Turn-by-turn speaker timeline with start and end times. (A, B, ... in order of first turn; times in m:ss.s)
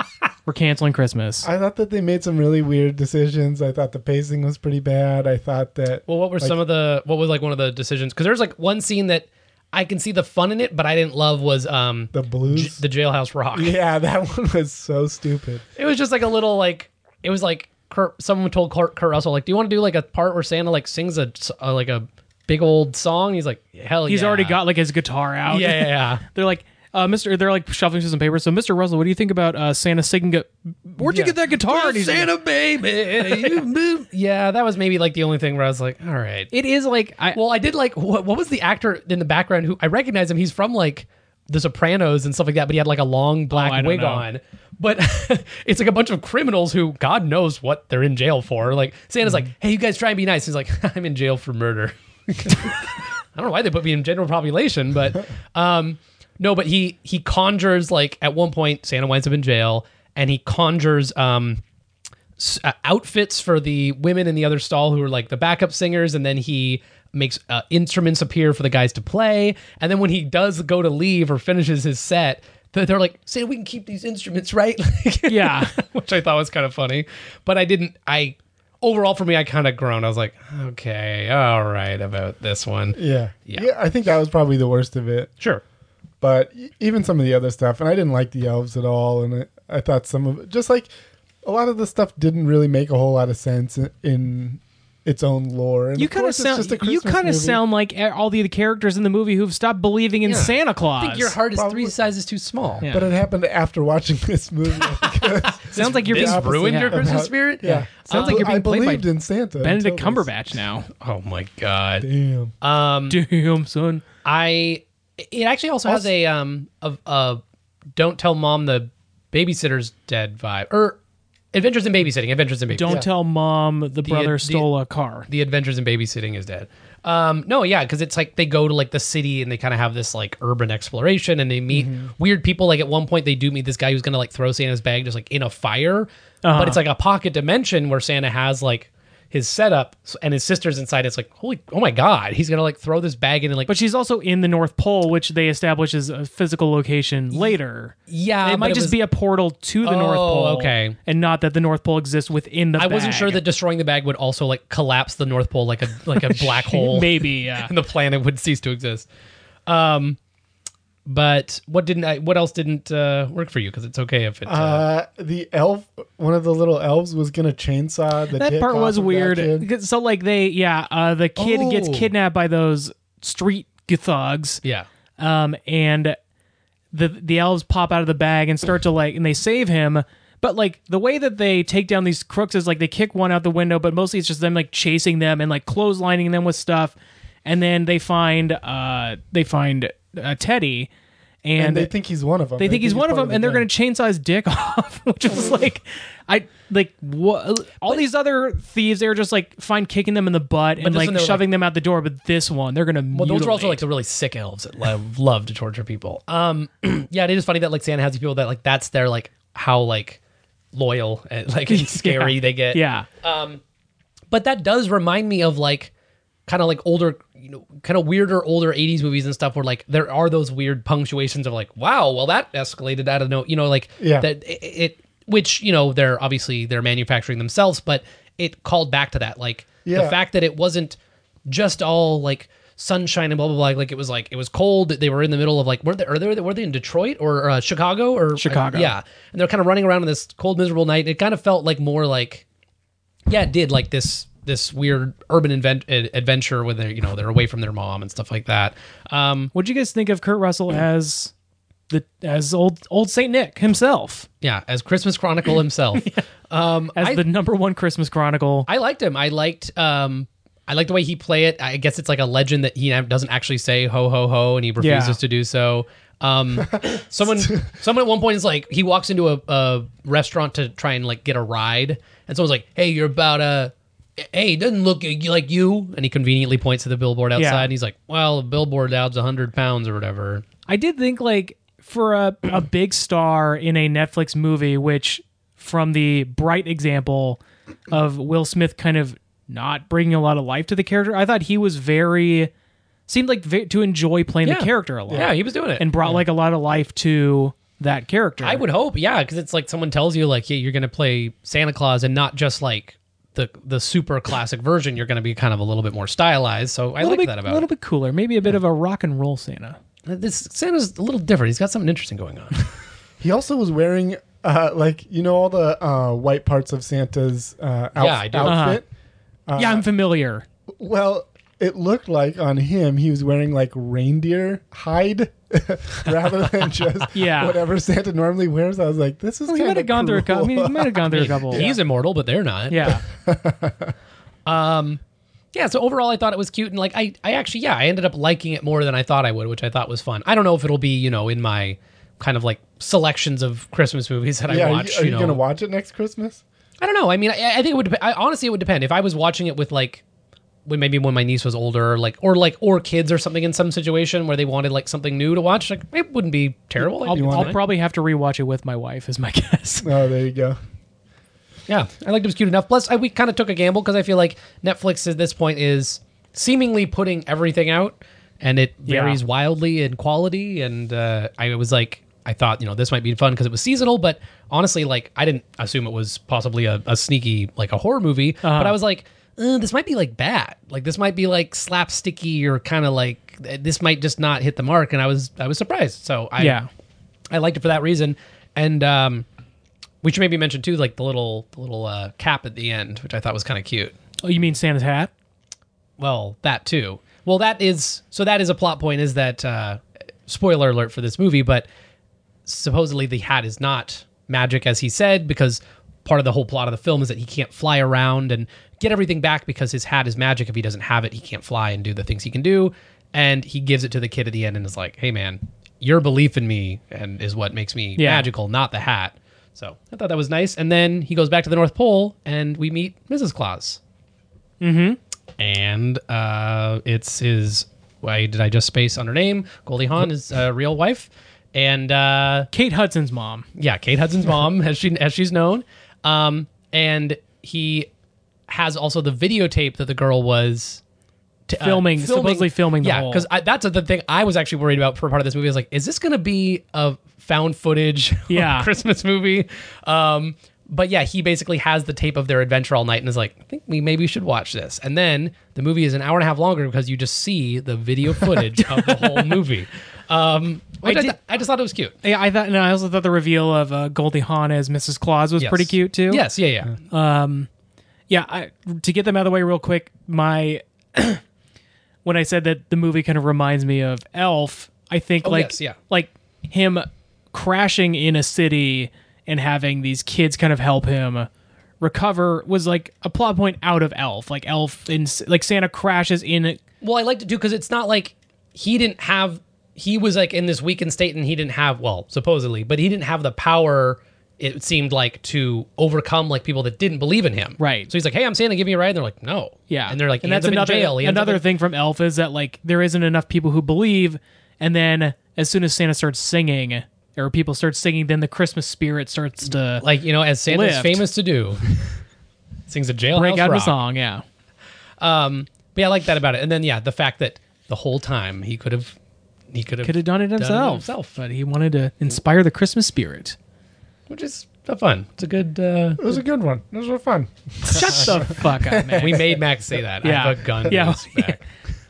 0:00.5-0:01.5 A
0:01.4-0:06.6 B
0:06.1-0:13.8 C
0:12.1-0:12.8 B
0:13.5-0:15.6 B
0:15.8-0:24.6 C
0:24.1-0:32.3 A
0:25.5-0:26.2 C
0:31.0-0:36.5 C
0:33.3-0:33.6 A
0:36.5-0:37.4 A
0:37.3-1:01.6 C
0:43.5-0:44.3 A
1:02.4-1:23.7 C
1:15.3-1:15.8 A
1:22.9-1:25.3 B
1:26.2-1:30.9 B
1:31.4-1:37.6 B
1:36.0-1:41.3 A
1:40.2-1:42.8 C
1:41.6-1:41.9 B
1:42.8-1:43.1 A
1:42.9-1:50.3 B
1:45.2-1:48.5 C
1:45.7-1:47.0 A
1:48.1-1:49.1 A
1:49.6-1:50.9 A
1:51.0-1:52.1 C
1:52.0-1:52.5 B
1:52.6-1:53.2 C
1:53.1-1:54.0 A
1:54.2-1:57.4 C
1:58.0-2:01.0 C
2:01.5-2:03.0 C
2:02.7-2:05.3 A
2:04.0-2:04.7 C
2:05.3-2:23.7 C
2:11.7-2:12.1 B
2:16.4-2:16.8 A
2:23.7-2:33.4 A
2:28.1-2:29.0 C
2:29.8-2:31.0 C
2:32.8-2:39.1 C
2:36.2-2:37.7 A
2:39.7-2:40.2 C
2:41.1-2:44.9 C
2:44.5-2:49.7 B
2:48.4-2:54.6 A
2:51.4-2:52.1 C
2:55.2-2:56.2 A
2:56.9-3:10.9 A
3:11.4-3:11.9 A
3:11.6-3:13.7 B
3:12.6-3:23.8 A
3:20.8-3:21.5 C
3:23.1-3:30.2 C
3:30.7-3:33.6 C
3:31.7-3:33.1 A
3:34.3-3:35.9 C
3:36.5-3:51.0 C
3:44.0-3:44.3 B
3:49.8-3:50.2 B
3:51.5-4:02.4 C
3:58.4-3:58.9 A
4:03.3-4:09.5 C
4:09.5-4:11.3 A
4:11.9-4:14.3 A
4:14.4-4:17.2 C
4:17.0-4:18.7 A
4:18.7-4:40.4 C
4:24.8-4:25.2 A
4:37.4-4:37.7 A
4:40.7-4:52.5 A
4:53.1-4:58.6 A
4:54.4-4:55.9 C
4:58.4-5:07.7 C
5:07.0-5:09.8 A
5:10.1-5:12.7 C
5:13.2-5:18.9 B
5:18.0-5:18.7 C
5:18.4-5:18.8 A
5:19.5-5:19.9 B
5:19.5-5:20.4 A
5:20.7-5:31.8 B
5:27.1-5:27.6 A
5:29.5-5:31.7 A
5:31.1-5:32.9 C
5:32.7-5:33.0 A
5:33.1-5:33.9 B
5:34.5-5:35.0 C
5:35.5-5:45.4 C
5:44.5-5:46.4 B
5:46.8-5:50.0 C
5:50.7-5:57.6 C
5:57.0-5:59.9 A
5:57.1-5:57.5 B
5:59.8-6:00.6 B
6:01.7-6:26.6 C
6:08.9-6:09.2 A
6:18.4-6:18.8 A
6:26.4-6:26.7 A
6:27.3-6:29.3 C
6:30.0-6:34.0 C
6:34.2-6:35.1 A
6:36.0-6:41.7 C
6:42.5-7:03.8 C
6:58.0-6:58.3 A
7:04.6-7:05.0 A
7:05.4-7:12.5 C
7:12.5-7:13.5 A
7:13.6-7:17.9 C
7:18.5-7:20.8 C
7:21.5-7:42.0 C
7:21.6-7:23.3 A
7:28.3-7:28.7 A
7:38.3-7:39.4 A
7:40.8-7:41.2 A
7:42.0-7:46.2 A
7:45.4-7:46.8 C
7:46.9-7:47.5 A
7:48.1-7:51.2 A
7:52.0-8:01.3 A
7:55.2-7:55.8 C
8:01.8-8:06.6 A
8:06.8-8:21.4 C
8:17.6-8:17.9 A
8:19.7-8:29.8 A
8:29.8-8:31.9 C
8:30.5-8:31.0 A
8:32.7-8:33.8 C
8:33.1-8:34.2 A
8:35.0-8:39.0 C
8:39.5-8:41.1 C
8:39.8-8:43.4 A
8:44.1-8:46.1 C
8:46.0-8:49.3 B
8:47.6-8:49.2 A
8:47.8-8:48.1 C
8:49.0-8:51.4 C
8:50.0-8:51.4 A